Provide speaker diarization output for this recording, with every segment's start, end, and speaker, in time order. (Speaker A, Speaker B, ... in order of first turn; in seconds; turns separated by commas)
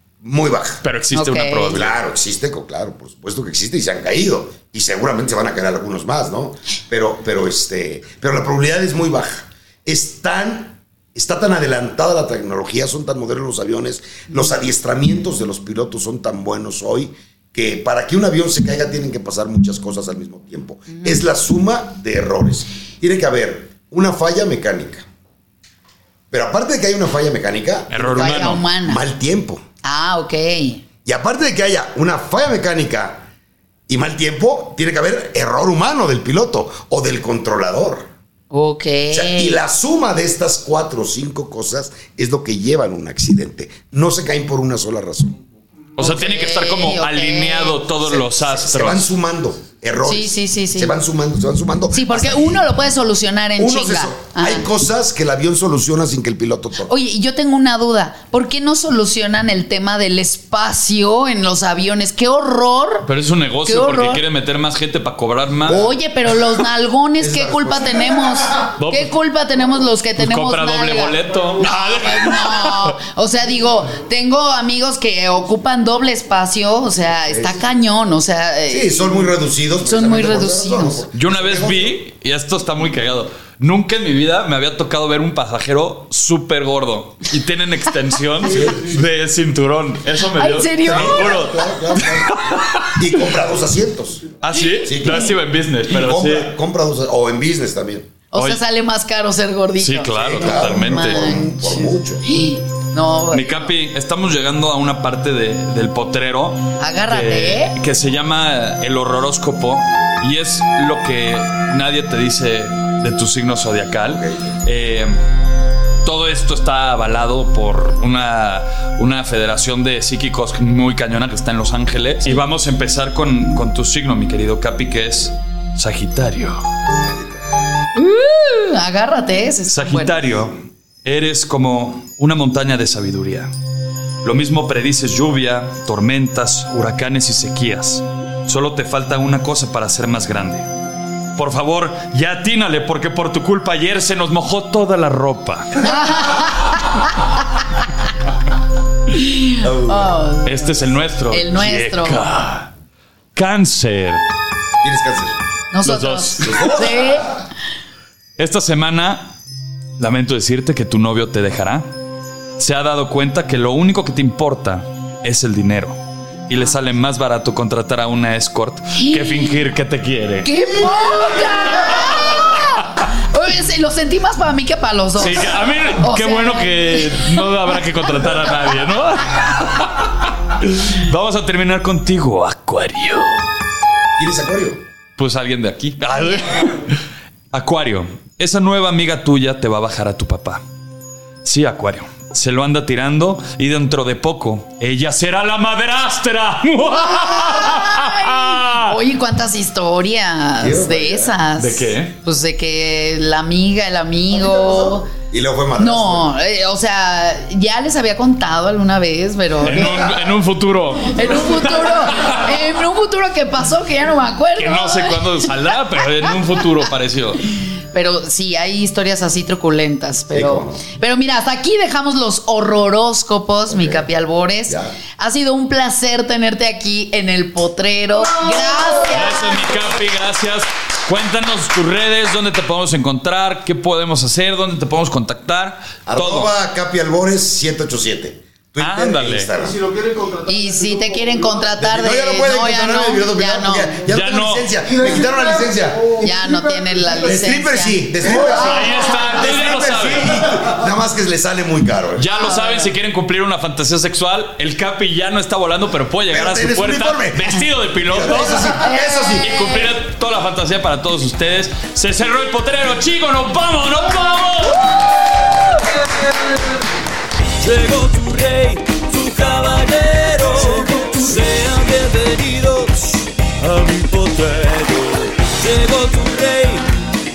Speaker A: 0.2-0.8, Speaker B: 0.8-1.9, Speaker C: 1.1-1.8, Speaker A: 1.7-25.1, Speaker A: 26.3-29.6, Speaker B: 27.9-28.6, Speaker C: 28.1-29.0, Speaker C: 29.8-30.8, Speaker A: 31.1-33.3, Speaker A: 33.9-38.1, Speaker C: 38.5-39.6, Speaker A: 39.1-45.4, Speaker B: 46.0-49.1, Speaker C: 46.0-47.8, Speaker A: 48.0-52.6, Speaker C: 50.0-51.0, Speaker C: 51.9-54.7, Speaker A: 53.6-56.9, Speaker C: 56.9-63.1, Speaker B: 63.0-65.8, Speaker C: 63.7-64.2, Speaker A: 65.7-66.0, Speaker C: 65.7-81.1, Speaker A: 67.2-68.2, Speaker B: 68.8-69.1, Speaker B: 70.2-73.0, Speaker A: 77.3-77.6, Speaker A: 78.7-82.0, Speaker B: 81.1-93.0, Speaker A: 88.4-88.9, Speaker C: 90.3-91.5, Speaker A: 90.8-95.3, Speaker B: 94.4-96.5, Speaker A: 95.9-98.1, Speaker C: 98.3-103.7, Speaker B: 98.3-98.6, Speaker B: 99.8-101.3, Speaker A: 100.1-102.2, Speaker B: 103.3-115.2, Speaker C: 106.8-107.8, Speaker A: 114.1-114.5, Speaker B: 116.0-126.6, Speaker A: 127.0-127.4, Speaker C: 128.0-130.4, Speaker B: 129.7-133.5, Speaker B: 134.2-140.7, Speaker B: 141.4-146.0, Speaker C: 145.8-147.2, Speaker C: 149.1-152.2, Speaker A: 149.6-150.1, Speaker B: 150.4-152.7, Speaker B: 153.3-154.2, Speaker A: 154.8-155.4, Speaker C: 155.7-157.4, Speaker B: 155.8-156.8, Speaker A: 156.4-157.2, Speaker B: 158.4-159.4, Speaker B: 160.0-161.9, Speaker B: 162.6-170.5, Speaker C: 169.0-169.5, Speaker C: 170.4-177.4, Speaker B: 171.8-173.1, Speaker B: 175.2-183.5, Speaker A: 184.2-184.8, Speaker B: 185.2-187.0, Speaker C: 186.2-186.6, Speaker B: 187.5-190.6, Speaker B: 191.4-199.0, Speaker C: 196.9-205.1, Speaker A: 200.6-201.4, Speaker B: 201.6-202.2, Speaker A: 205.1-206.3, Speaker C: 205.8-210.2, Speaker B: 209.6-212.4, Speaker C: 211.1-215.5, Speaker B: 214.6-217.4, Speaker C: 217.6-229.9, Speaker A: 220.3-220.8, Speaker A: 223.7-224.1, Speaker A: 224.7-224.9, Speaker B: 229.0-236.5, Speaker A: 236.1-240.0, Speaker B: 238.8-239.5, Speaker C: 240.4-243.9, Speaker A: 241.8-246.3, Speaker B: 244.1-244.7, Speaker C: 246.2-248.0, Speaker A: 247.2-252.4, Speaker B: 248.4-250.4, Speaker B: 252.2-258.8, Speaker C: 252.4-252.9, Speaker A: 256.3-259.5, Speaker C: 258.8-259.9, Speaker B: 259.4-266.8, Speaker B: 267.6-276.9